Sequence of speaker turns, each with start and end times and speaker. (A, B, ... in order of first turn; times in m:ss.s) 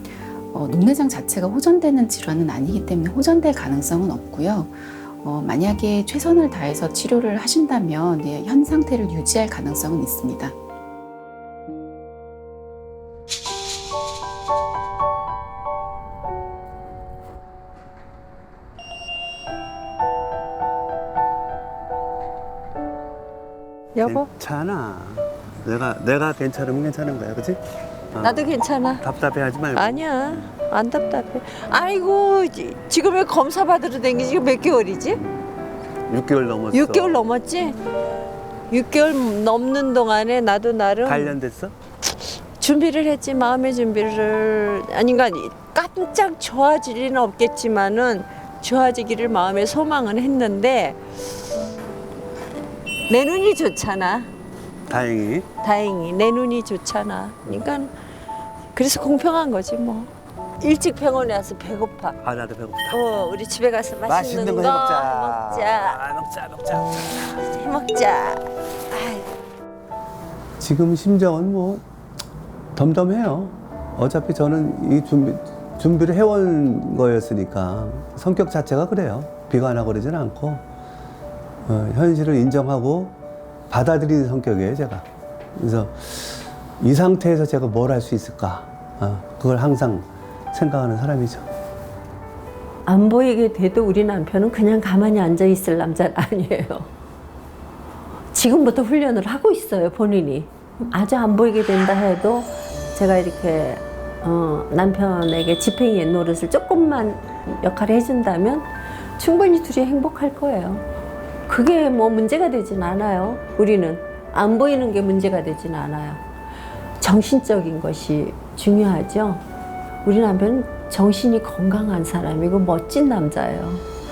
0:00.5-0:10.5 A
0:24.0-0:24.3 B
0:24.0-0:27.6 C
0:28.1-0:30.1 C
0:28.2-0:29.0 B
0:29.7-0:35.2 B
0:36.1-0:37.2 C
0:36.7-0:37.8 B
0:38.7-0:41.4 B
0:41.0-0:41.7 C
0:42.6-0:51.0 B
0:53.1-0:54.3 B
0:54.9-0:55.5 C
0:55.6-0:57.9 B
0:58.7-1:02.2 B
1:02.2-1:03.0 C
1:02.9-1:06.0 B
1:04.0-1:07.2 C
1:07.3-1:09.3 B
1:10.6-1:11.8 C
1:12.8-1:20.6 C
1:21.7-1:23.2 C
1:23.7-1:31.5 C
1:32.9-1:36.9 B
1:38.3-1:50.8 B
1:51.5-1:56.2 B
1:57.0-1:59.4 B
2:00.0-2:03.8 B